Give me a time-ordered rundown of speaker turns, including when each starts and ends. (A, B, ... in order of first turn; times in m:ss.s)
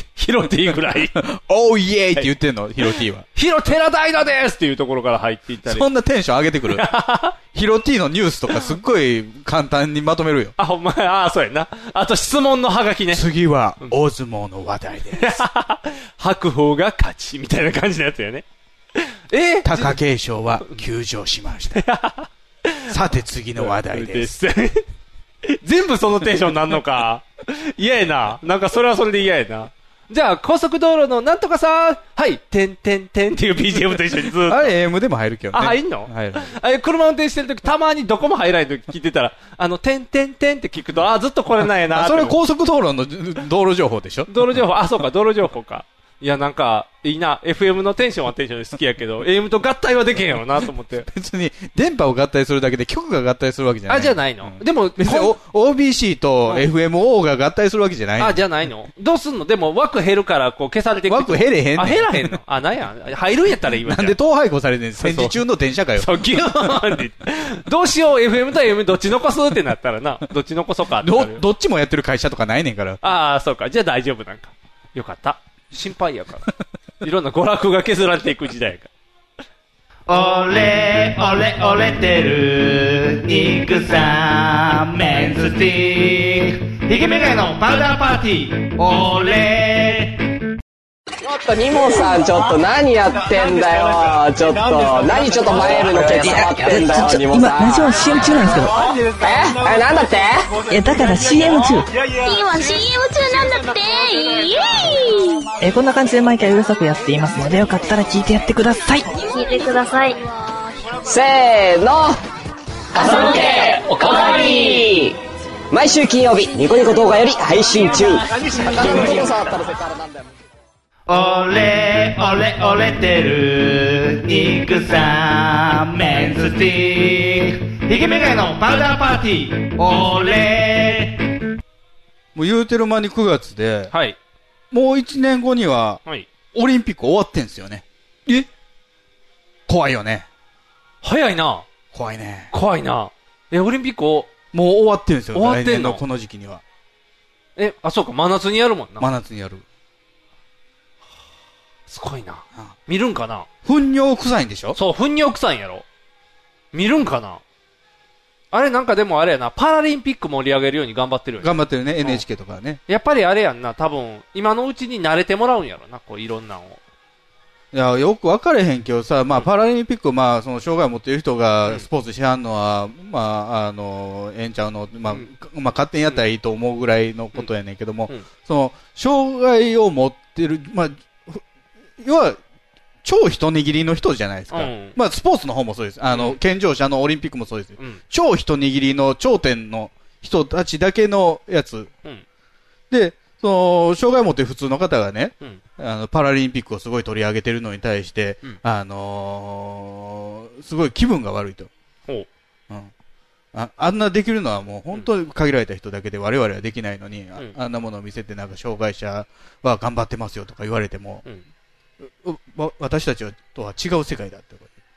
0:00.2-0:01.2 A
0:01.2-0:03.2 B
0:03.3-0:05.9 A
0:05.6-0:06.9 B
0:06.7-0:07.3 A
0:07.5-0:10.5 B
0:10.6-0:13.2 A
0:13.1-0:15.4 B
0:15.2-0:18.4 A
0:19.3-0:20.0 A
0:19.6-0:21.8 B
0:21.7-0:22.9 A
0:22.9-0:24.3 B
0:23.6-0:24.8 A
0:25.4-0:34.7 A
0:34.3-0:36.5 B
0:35.5-0:42.4 A
0:41.9-0:44.4 B
0:44.3-0:51.1 A
0:51.0-0:58.4 B
0:53.9-0:55.4 A
0:58.2-1:04.2 A
1:01.1-1:02.3 B
1:03.8-1:06.1 B
1:05.0-1:05.4 A
1:06.0-1:11.4 A
1:11.0-1:13.0 B
1:13.0-1:16.5 A
1:17.0-1:18.9 A
1:20.1-1:30.2 C
1:31.2-1:37.9 D
1:36.1-1:38.8 E
1:39.2-1:40.5 D
1:40.7-1:41.9 E
1:42.2-1:45.4 F
1:45.6-1:49.1 E
1:49.2-1:50.2 F
1:51.0-1:52.2 D
1:52.9-1:55.2 D
1:55.7-2:00.0 D
2:01.1-2:11.2 C
2:12.3-2:13.9 B
2:13.9-2:14.2 A
2:14.7-2:16.0 B
2:16.5-2:18.5 B
2:19.7-2:20.3 B
2:21.0-2:21.6 A
2:21.9-2:22.5 B
2:22.5-2:24.3 A
2:24.5-2:26.6 B
2:25.3-2:26.0 A
2:27.6-2:29.1 A
2:29.0-2:29.6 B
2:31.9-2:33.5 A
2:33.6-2:34.8 B
2:34.7-2:35.8 A
2:36.7-2:37.4 A
2:38.5-2:42.2 A
2:41.4-2:42.8 B
2:42.9-2:46.8 A
2:47.7-3:01.4 B
3:02.0-3:02.4 B
3:03.0-3:11.9 B
3:04.5-3:05.0 A
3:06.1-3:06.4 A
3:12.9-3:21.7 B
3:23.5-3:31.2 B
3:32.0-3:34.7 B